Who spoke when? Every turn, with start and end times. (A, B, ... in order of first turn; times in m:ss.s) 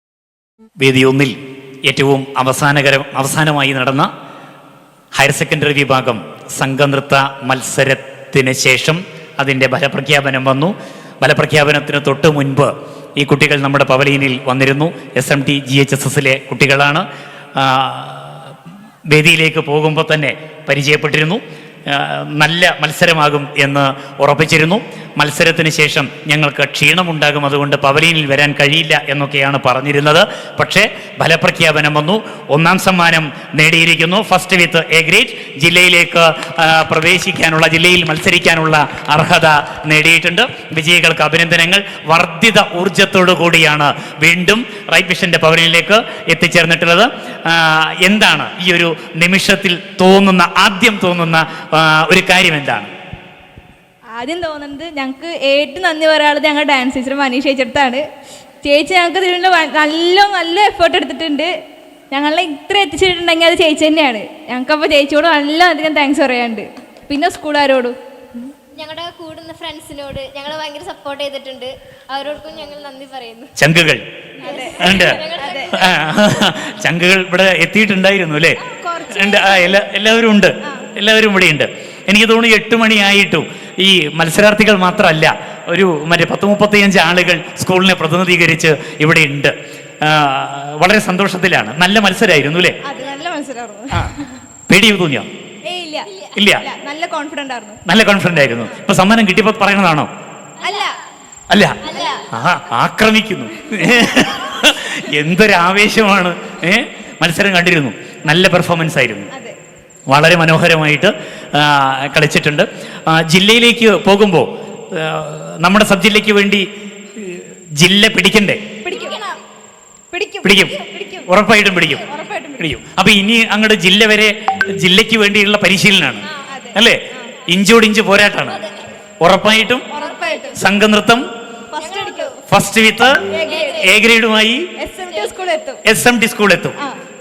0:00.8-0:04.1 A
0:05.1-0:17.1 A
0:17.6-0:18.5 A
0:19.1-0:52.9 A
0:54.1-0:58.0 B
0:58.6-1:01.5 B
1:02.1-1:08.0 B
1:08.8-1:13.5 C
1:13.6-1:14.0 A
1:14.4-1:14.8 B
1:14.5-1:16.0 C
1:14.8-1:18.6 A
1:15.4-1:15.6 B
1:18.6-1:19.6 B
1:19.1-1:32.8 A
1:32.8-1:34.3 B
1:34.7-1:35.3 A
1:35.7-1:36.1 B
1:36.0-1:36.4 C
1:36.4-1:36.7 A
1:36.6-1:37.8 B
1:37.9-1:40.1 A
1:40.6-1:40.9 C
1:41.5-1:49.3 A
1:41.8-1:42.2 C
1:49.3-1:49.6 B
1:50.1-1:58.6 A
1:58.9-1:59.4 C
2:00.1-2:01.3 B
2:00.4-2:02.0 A
2:02.1-2:02.6 B
2:02.6-2:08.6 A
2:06.5-2:07.2 B
2:08.4-2:08.8 C
2:09.2-2:09.9 A
2:09.9-2:10.4 B
2:10.0-2:10.6 C
2:10.6-2:11.3 A
2:11.7-2:12.2 B
2:11.8-2:12.4 C
2:12.5-2:13.2 A
2:13.3-2:13.6 B
2:13.4-2:14.0 C
2:13.8-2:14.7 A
2:14.8-2:15.8 B
2:15.0-2:15.5 C
2:15.8-2:16.8 A